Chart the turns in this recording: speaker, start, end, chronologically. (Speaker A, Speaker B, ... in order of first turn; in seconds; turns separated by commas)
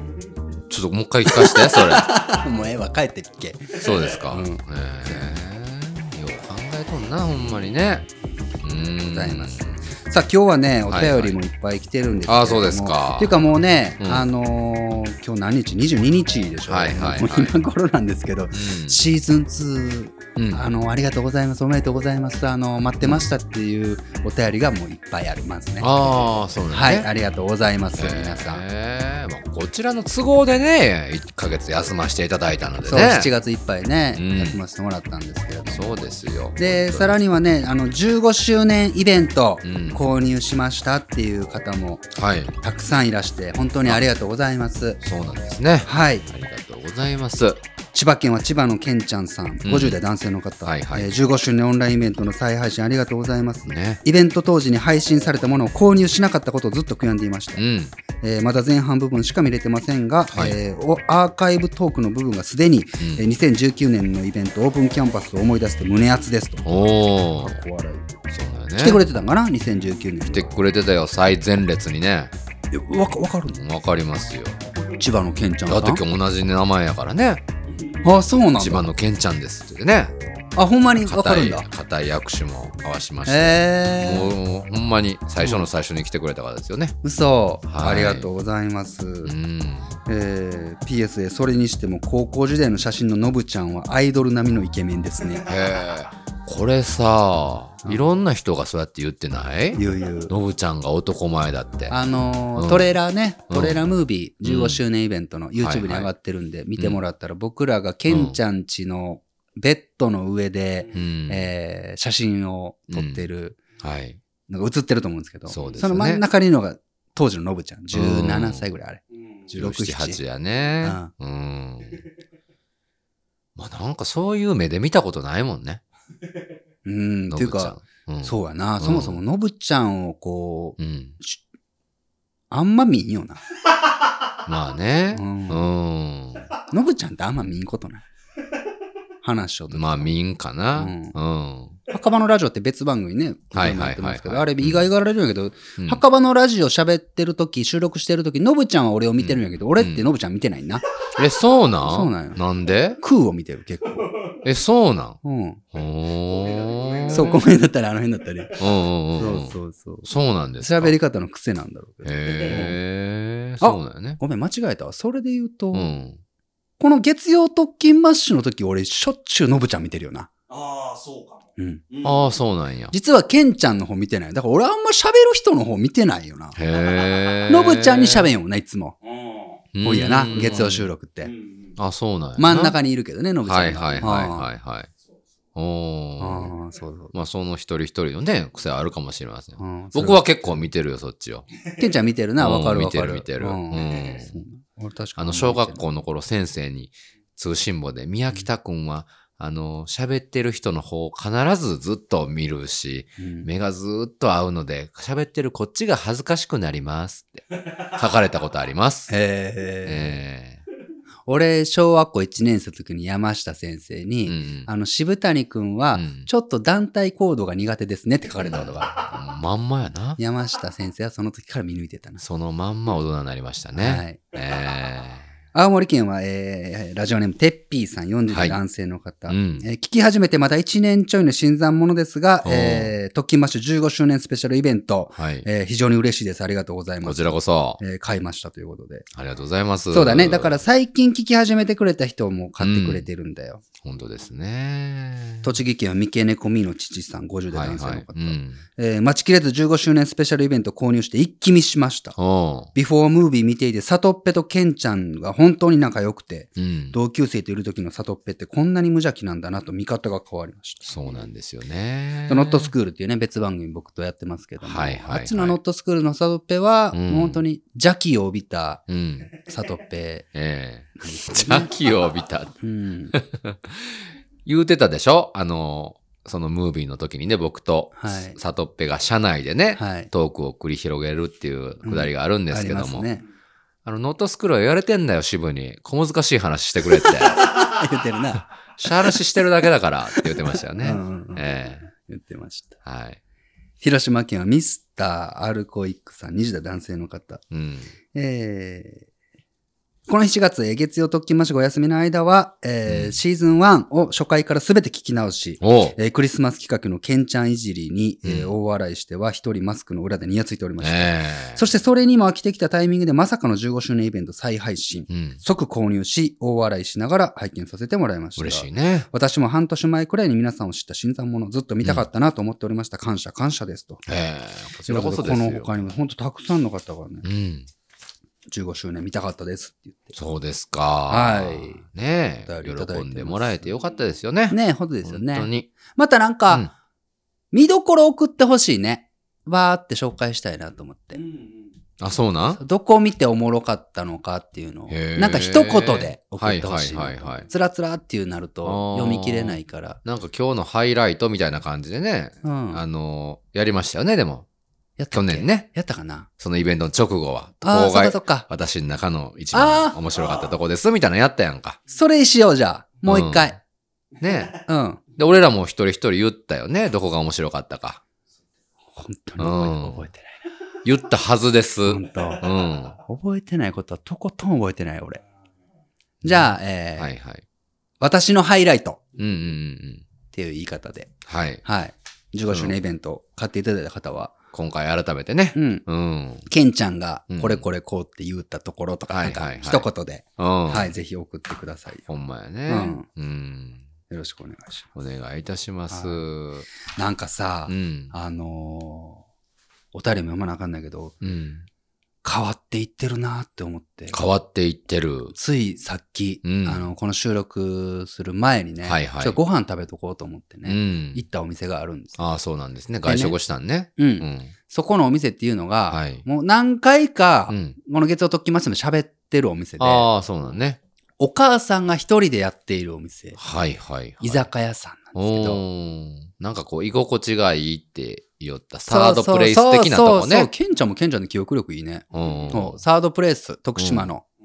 Speaker A: 0.7-2.2, Speaker B: 1.3-5.4, Speaker A: 3.7-8.1, Speaker A: 8.6-9.9, Speaker B: 9.0-28.6, Speaker A: 10.9-11.4, Speaker A: 12.3-13.4, Speaker A: 14.0-14.3, Speaker A: 16.7-17.6, Speaker A: 18.5-19.0, Speaker A: 20.4-20.6, Speaker A: 23.0-23.3, Speaker A: 25.8-27.1, Speaker A: 28.0-33.3, Speaker B: 32.9-36.0, Speaker A: 34.1-34.6, Speaker A: 35.7-37.2, Speaker B: 36.6-42.1, Speaker A: 39.6-40.0, Speaker A: 42.2-42.6, Speaker B: 42.6-45.0, Speaker A: 45.0-47.6, Speaker B: 45.9-46.3, Speaker B: 47.9-57.6, Speaker A: 49.6-50.0, Speaker A: 50.6-51.1, Speaker A: 53.7-54.0, Speaker A: 57.6-58.0, Speaker B: 58.2-66.7, Speaker A: 60.3-60.6, Speaker A: 63.0-63.2, Speaker A: 66.7-67.6, Speaker B: 67.3-68.1, Speaker A: 68.3-69.0, Speaker B: 68.8-70.5, Speaker A: 70.3-72.3, Speaker B: 72.7-73.6, Speaker A: 73.5-74.6, Speaker B: 75.0-76.0, Speaker A: 75.7-77.4, Speaker B: 78.0-78.9, Speaker A: 78.5-80.2, Speaker B: 80.6-81.7, Speaker A: 81.1-87.0, Speaker B: 83.3-84.4, Speaker B: 85.4-85.7, Speaker B: 87.0-89.3, Speaker A: 87.7-88.3, Speaker A: 89.2-89.9, Speaker B: 90.1-95.5, Speaker A: 95.5-102.0, Speaker B: 99.8-100.3, Speaker B: 101.9-113.6, Speaker A: 102.6-102.9, Speaker A: 103.5-103.8, Speaker A: 104.4-104.8, Speaker A: 105.6-106.1, Speaker A: 108.1-108.4, Speaker A: 110.9-111.5, Speaker A: 112.9-113.2, Speaker A: 113.8-114.2, Speaker B: 114.5-120.2, Speaker A: 115.5-116.2, Speaker A: 117.9-118.7, Speaker A: 119.6-122.0, Speaker B: 120.8-121.1, Speaker A: 123.6-125.8, Speaker B: 126.8-131.4, Speaker A: 127.3-129.2, Speaker A: 130.8-131.2, Speaker B: 132.5-133.4, Speaker A: 134.4-136.5, Speaker B: 135.1-135.7, Speaker B: 136.7-138.1, Speaker B: 139.2-140.2, Speaker A: 139.7-141.8, Speaker B: 140.8-141.2, Speaker B: 141.9-150.8, Speaker A: 143.5-144.9, Speaker A: 149.2-150.1, Speaker A: 151.2-153.0, Speaker B: 151.8-152.4, Speaker B: 153.0-154.1, Speaker A: 154.4-155.2, Speaker B: 155.2-155.6, Speaker A: 155.7-157.4, Speaker C: 156.5-157.2, Speaker B: 157.1-158.6, Speaker A: 158.6-161.0, Speaker B: 159.1-160.1, Speaker B: 160.6-162.8, Speaker A: 162.0-164.2, Speaker B: 163.6-165.9, Speaker A: 165.7-166.2, Speaker B: 166.8-170.3, Speaker C: 170.5-172.4, Speaker B: 171.6-171.8, Speaker A: 172.0-172.9, Speaker B: 172.9-176.6, Speaker A: 176.6-178.3, Speaker C: 176.8-177.5, Speaker B: 177.5-179.0, Speaker C: 179.1-180.7, Speaker A: 179.7-180.9, Speaker B: 179.8-181.3, Speaker C: 181.2-181.8, Speaker A: 181.8-182.8, Speaker B: 182.4-184.5, Speaker A: 183.4-184.9, Speaker A: 185.6-186.5, Speaker B: 186.2-187.1, Speaker A: 187.1-191.5, Speaker B: 189.6-190.6, Speaker B: 191.8-195.8, Speaker A: 192.4-194.4, Speaker A: 195.2-209.1, Speaker B: 203.2-203.5, Speaker B: 209.1-210.2, Speaker A: 209.8-210.6, Speaker B: 211.3-219.0, Speaker A: 214.3-214.7, Speaker A: 215.9-216.3, Speaker A: 218.4-220.2, Speaker B: 220.2-222.2, Speaker A: 222.2-225.3, Speaker B: 223.8-224.2, Speaker B: 225.5-237.2, Speaker A: 228.3-228.6, Speaker A: 229.3-229.7, Speaker A: 232.4-233.0, Speaker A: 235.2-235.5, Speaker A: 237.0-237.8, Speaker B: 237.8-239.1, Speaker A: 239.1-240.6, Speaker B: 239.9-243.6, Speaker A: 242.6-243.1, Speaker A: 243.8-245.5, Speaker B: 245.4-252.2, Speaker A: 247.5-248.6, Speaker A: 252.2-252.7, Speaker B: 252.7-260.9, Speaker A: 256.6-257.0, Speaker A: 260.8-262.7, Speaker B: 262.3-270.3, Speaker A: 264.6-265.6, Speaker A: 266.9-267.4, Speaker A: 268.9-269.3, Speaker A: 270.3-272.6, Speaker B: 271.0-271.7, Speaker B: 272.6-273.2, Speaker A: 273.1-283.1, Speaker B: 278.0-278.4, Speaker B: 279.8-280.1, Speaker B: 281.8-283.2, Speaker A: 283.9-287.5, Speaker B: 287.3-289.2, Speaker A: 288.7-291.9, Speaker B: 290.2-291.4, Speaker B: 292.0-292.8, Speaker A: 292.9-293.2, Speaker B: 293.8-297.4, Speaker A: 297.5-297.9, Speaker B: 298.1-299.1, Speaker B: 300.1-324.1, Speaker A: 302.9-303.2, Speaker A: 305.6-306.0, Speaker A: 308.2-308.5, Speaker A: 310.8-311.6, Speaker A: 315.1-315.4, Speaker A: 318.4-319.1, Speaker A: 324.1-325.8, Speaker B: 324.9-327.3, Speaker A: 327.2-327.7, Speaker B: 328.5-330.2, Speaker A: 330.1-335.7, Speaker B: 331.1-331.8, Speaker B: 332.4-333.7, Speaker B: 334.5-336.7, Speaker B: 337.5-341.2, Speaker C: 341.3-341.7, Speaker A: 342.0-342.6, Speaker B: 342.5-350.0, Speaker A: 344.9-347.5, Speaker A: 348.6-354.5, Speaker B: 352.4-352.8, Speaker B: 355.0-356.3, Speaker A: 355.1-355.7, Speaker A: 356.4-361.8, Speaker B: 357.6-358.5, Speaker B: 359.5-360.0, Speaker B: 361.9-363.6, Speaker A: 363.1-363.6, Speaker A: 364.2-364.6, Speaker B: 364.7-365.0, Speaker A: 365.2-368.0, Speaker B: 369.0-370.4, Speaker A: 369.4-370.1, Speaker A: 370.8-373.0, Speaker B: 371.9-372.5, Speaker B: 373.0-375.2, Speaker B: 376.2-377.1, Speaker A: 376.2-377.4, Speaker B: 378.0-379.0, Speaker A: 379.2-380.1, Speaker B: 380.3-381.1, Speaker A: 381.3-381.6, Speaker B: 381.6-384.3, Speaker A: 382.5-382.8, Speaker A: 384.5-386.5, Speaker B: 385.6-385.8, Speaker B: 386.5-392.1, Speaker A: 387.3-387.7, Speaker A: 389.1-390.9, Speaker A: 392.1-393.9, Speaker B: 392.7-393.1, Speaker B: 394.1-394.9, Speaker A: 394.9-396.7, Speaker B: 395.9-396.2, Speaker B: 396.9-399.2, Speaker A: 397.7-398.1, Speaker B: 399.9-401.2, Speaker A: 401.2-401.7, Speaker B: 402.2-404.2, Speaker A: 404.1-405.3, Speaker B: 405.3-412.2, Speaker A: 406.4-406.9, Speaker A: 408.8-409.4, Speaker A: 410.7-411.2, Speaker A: 412.2-414.5, Speaker B: 413.1-413.4, Speaker B: 414.0-420.1, Speaker A: 415.9-416.2, Speaker A: 417.5-417.8, Speaker A: 419.8-420.8, Speaker B: 421.2-423.4, Speaker A: 423.4-424.5, Speaker B: 424.2-425.6, Speaker A: 425.2-430.5, Speaker B: 428.9-434.2, Speaker A: 432.1-432.8, Speaker A: 433.8-434.1